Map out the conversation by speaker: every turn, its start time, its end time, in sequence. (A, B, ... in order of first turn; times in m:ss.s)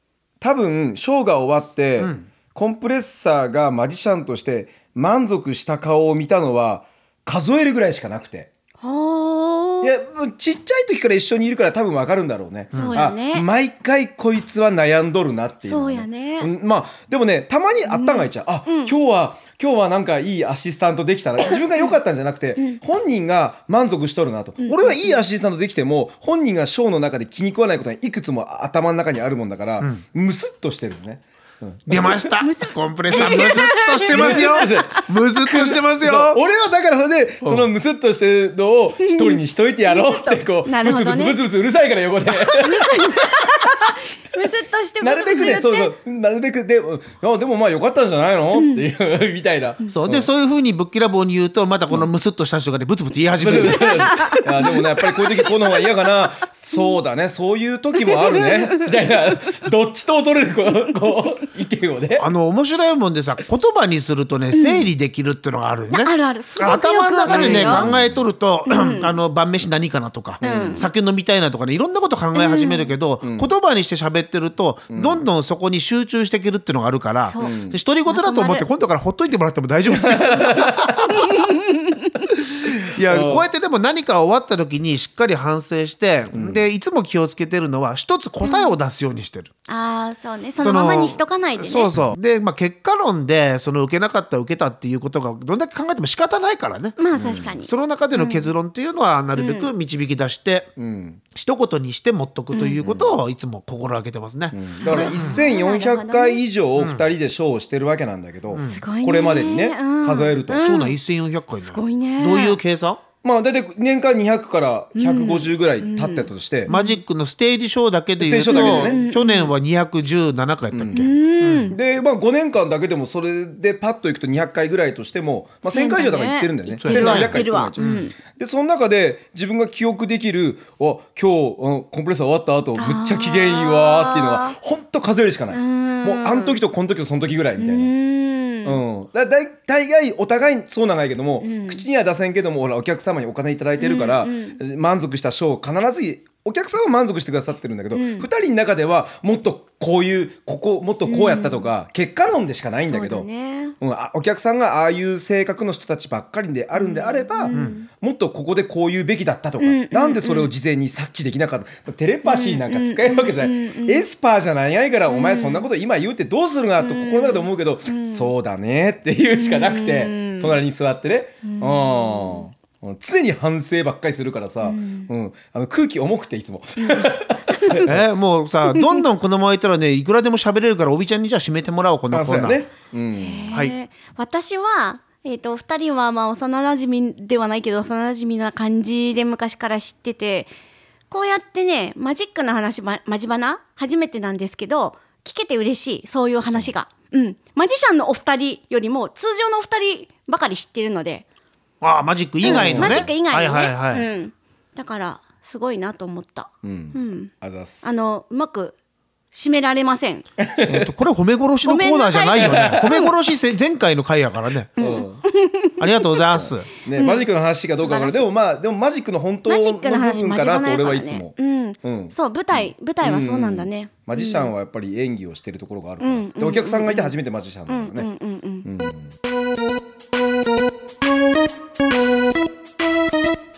0:00.4-0:08.5 A
0:02.0-0:02.3 B
0:08.8-0:09.9 C
0:09.8-0:32.3 A
0:12.7-0:13.5 C
0:12.7-0:13.0 B
0:15.6-0:16.5 C
0:17.9-0:18.9 C
0:24.6-0:25.2 C
0:31.9-0:36.4 B
0:32.4-0:34.8 C
0:33.1-0:43.3 A
0:37.4-0:37.7 B
0:39.0-0:41.4 C
0:42.4-0:45.9 C
0:45.0-0:50.3 A
0:49.9-0:54.4 B
0:53.4-1:02.3 A
0:53.9-0:54.8 C
0:58.1-0:58.8 C
1:02.2-1:21.5 B
1:04.5-1:04.8 C
1:05.9-1:07.9 C
1:07.3-1:08.2 A
1:08.7-1:09.1 C
1:10.4-1:10.8 A
1:10.4-1:10.9 C
1:12.4-1:12.9 C
1:13.2-1:13.5 A
1:14.9-1:15.2 A
1:17.3-1:17.6 C
1:17.4-1:17.8 A
1:18.1-1:18.7 C
1:19.9-1:21.1 A
1:21.1-1:22.1 C
1:22.3-1:29.5 B
1:23.0-1:23.5 A
1:26.3-1:26.6 A
1:28.4-1:28.8 C
1:29.7-1:31.9 C
1:30.6-1:37.0 B
1:37.0-1:38.5 C
1:37.2-1:37.5 A
1:37.6-1:40.7 B
1:39.4-1:39.7 C
1:40.8-1:41.2 A
1:41.3-1:45.4 B
1:42.8-1:43.2 A
1:44.5-1:50.7 A
1:44.8-1:46.4 C
1:46.8-1:47.0 B
1:48.5-1:48.8 B
1:48.6-1:51.0 C
1:50.6-1:53.0 B
1:51.6-1:52.6 C
1:53.2-1:56.7 A
1:55.0-1:57.0 C
1:56.7-2:01.8 B
1:58.2-1:59.0 A
1:58.5-1:59.5 C
2:00.7-2:01.1 A
2:00.9-2:01.8 C
2:01.7-2:17.9 A
2:05.7-2:08.1 C
2:06.8-2:08.0 B
2:12.8-2:14.6 C
2:15.5-2:16.6 C
2:17.6-2:18.8 C
2:18.6-2:33.3 A
2:21.4-2:21.8 C
2:23.8-2:24.6 C
2:27.9-2:28.3 C
2:31.1-2:31.7 C
2:32.9-2:33.7 C
2:33.8-2:58.0 A
2:36.8-2:37.9 C
2:37.5-2:37.8 B
2:39.6-2:40.5 C
2:42.3-2:44.0 C
2:45.1-2:45.7 C
2:46.8-2:48.3 C
2:49.3-2:50.6 C
2:51.4-2:52.4 C
2:54.6-2:55.1 C
2:56.8-2:57.9 C
2:57.8-3:02.6 B
2:58.7-2:59.0 C
3:02.1-3:03.5 A
3:03.2-3:10.5 C
3:11.1-3:21.2 C
3:21.8-3:24.1 B
3:22.4-3:23.1 A
3:22.4-3:27.3 C
3:26.6-3:28.0 A
3:27.8-3:28.8 C
3:29.3-3:30.2 C
3:30.4-3:30.9 A
3:30.6-3:34.7 B
3:31.6-3:33.1 C
3:32.4-3:33.0 A
3:34.8-3:35.2 A
3:34.8-3:36.2 C
3:35.8-3:36.7 B
3:36.4-3:48.1 A
3:37.0-3:38.3 C
3:39.5-3:44.5 C
3:46.0-3:47.1 C
3:47.7-3:48.7 C
3:48.6-3:49.1 A